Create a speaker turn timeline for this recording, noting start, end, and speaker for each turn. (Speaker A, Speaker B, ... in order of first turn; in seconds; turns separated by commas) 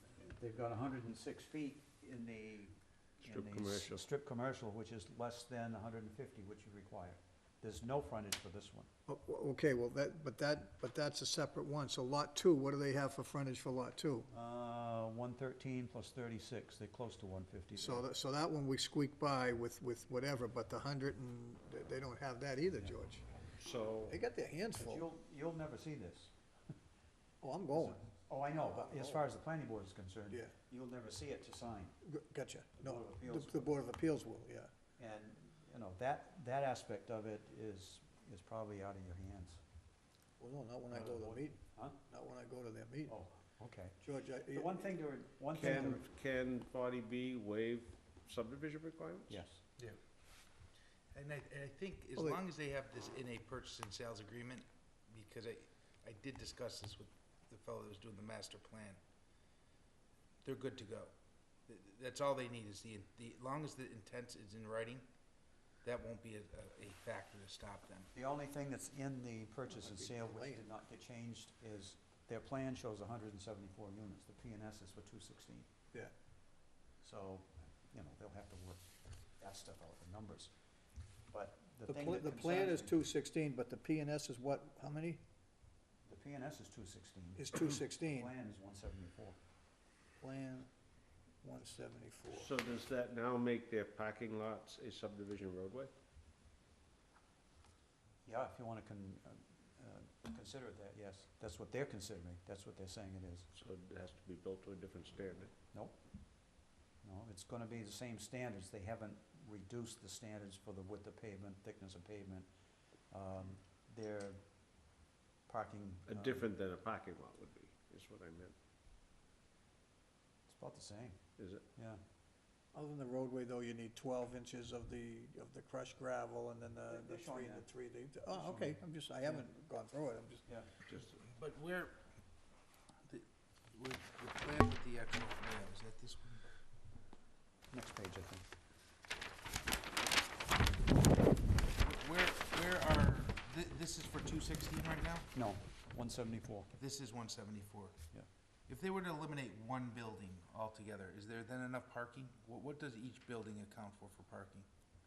Speaker A: 0.2-8.9, Speaker B: 3.2-4.0, Speaker C: 9.1-14.3, Speaker A: 14.3-18.1, Speaker C: 17.8-23.2, Speaker B: 23.6-24.2, Speaker C: 24.1-25.1, Speaker A: 24.8-26.3, Speaker C: 27.4-29.2, Speaker A: 27.7-32.0, Speaker C: 32.0-34.7, Speaker A: 32.8-33.8, Speaker A: 35.0-39.6, Speaker C: 40.4-43.2, Speaker A: 40.9-42.0, Speaker A: 43.1-46.0, Speaker C: 44.0-45.0, Speaker B: 45.5-49.4, Speaker A: 49.3-49.6, Speaker D: 51.1-59.0, Speaker D: 60.4-61.1, Speaker D: 61.7-65.1, Speaker D: 65.8-68.1, Speaker A: 68.2-75.7, Speaker C: 69.7-70.7, Speaker A: 77.0-80.5, Speaker A: 81.3-83.0, Speaker C: 81.9-85.2, Speaker A: 86.1-89.4, Speaker C: 87.4-88.3, Speaker C: 90.2-90.7, Speaker C: 91.4-92.5, Speaker B: 92.3-95.9, Speaker A: 98.3-103.5, Speaker B: 103.5-105.5, Speaker A: 105.7-106.0, Speaker A: 107.0-112.5, Speaker A: 113.1-114.4, Speaker A: 115.5-116.5, Speaker B: 116.1-118.6, Speaker A: 120.5-121.2, Speaker B: 121.4-121.7, Speaker C: 122.7-130.4, Speaker A: 126.9-127.7, Speaker A: 128.3-129.5, Speaker A: 130.5-130.8, Speaker D: 130.9-132.0, Speaker D: 133.1-136.4, Speaker A: 137.7-138.5, Speaker D: 141.8-145.3, Speaker A: 145.3-146.7, Speaker D: 146.8-148.0, Speaker D: 148.7-154.7